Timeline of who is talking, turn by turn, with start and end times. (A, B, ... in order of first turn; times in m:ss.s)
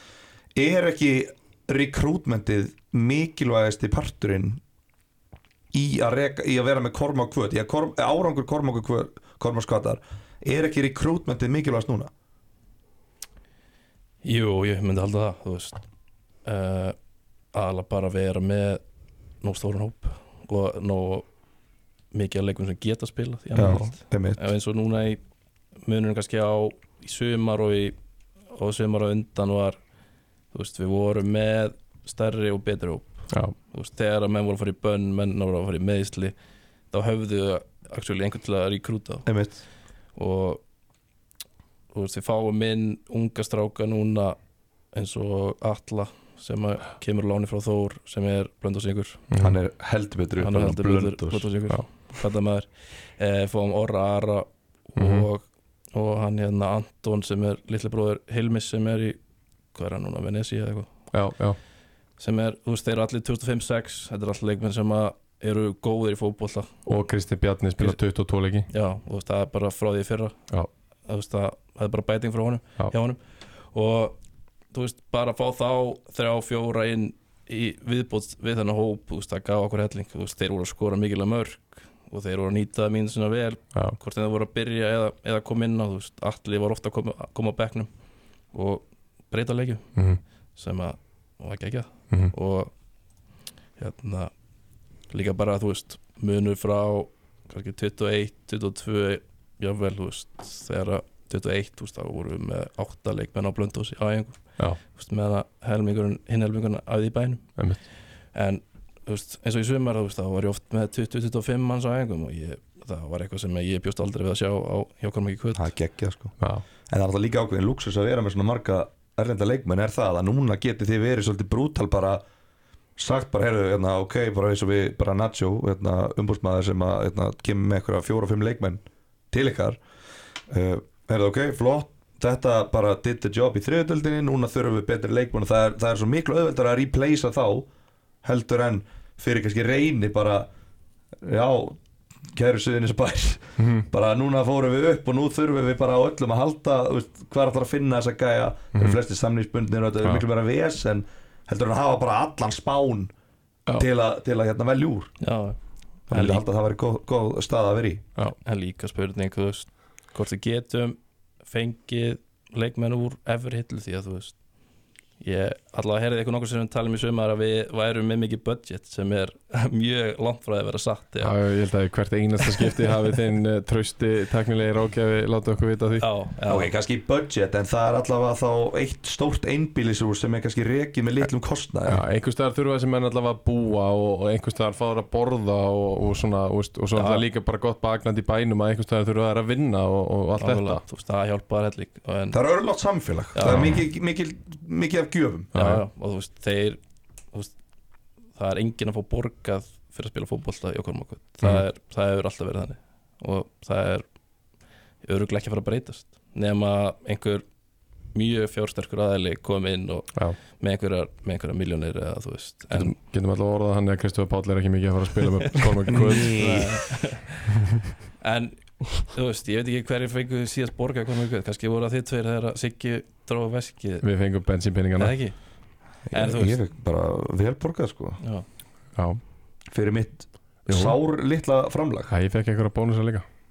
0:00.5-0:04.6 A
0:05.7-0:12.1 A
0:14.2-0:15.8 B
0:16.4-0:17.0 B
0:17.5-0:18.8 B
0:19.4-0:21.3 B
0:22.1-0:25.2 B
0:23.5-0:24.4 A
0:25.8-0:27.9 B
0:28.5-0:29.8 B
0:30.5-0:36.3 B
0:36.9-0:39.4 B
0:39.3-0:39.6 A
0:40.1-0:40.6 B
0:41.9-0:44.4 B
0:44.9-0:49.3 B
0:49.3-0:49.6 C
0:49.4-0:51.5 A
0:50.4-0:59.2 B
0:55.0-0:55.2 C
0:59.7-1:00.9 B
1:01.1-1:01.6 C
1:02.2-1:06.7 B
1:06.8-1:08.7 C
1:08.7-1:10.4 B
1:11.1-1:13.2 B
1:13.7-1:14.2 B
1:14.7-1:27.9 B
1:28.5-1:29.9 B
1:30.0-1:30.2 C
1:30.6-1:32.7 B
1:33.8-1:34.3 B
1:35.1-1:47.6 B
1:48.3-1:55.7 B
1:55.5-1:56.3 A
1:56.9-2:02.2 A
2:03.0-2:09.8 A
2:10.5-2:17.7 A
2:18.2-2:20.5 A
2:21.2-2:21.8 A
2:22.3-2:33.1 A
2:23.6-2:23.8 C
2:33.8-2:35.1 A
2:35.2-2:35.6 B
2:36.1-2:36.4 B
2:36.1-2:38.0 A
2:38.4-2:44.4 B
2:45.2-2:51.4 B
2:51.2-2:56.1 C
2:52.4-2:52.7 B
2:56.0-2:56.7 B
2:56.5-3:02.0 A
3:01.8-3:10.8 C
3:06.9-3:07.2 B
3:10.4-3:12.4 B
3:12.3-3:15.5 A
3:13.3-3:13.7 B
3:15.5-3:15.8 C
3:15.5-3:16.8 B
3:18.4-3:24.0 B
3:25.0-3:27.4 B
3:28.1-3:32.9 B
3:32.7-3:36.4 C
3:35.4-3:37.6 B
3:35.9-3:36.8 A
3:38.2-3:44.0 B
3:44.0-3:45.2 C
3:45.0-3:45.4 B
3:46.1-3:48.2 A
3:46.1-3:46.6 B
3:48.9-3:49.2 C
3:49.7-3:52.1 A
3:50.7-3:51.0 C
3:52.1-3:53.2 C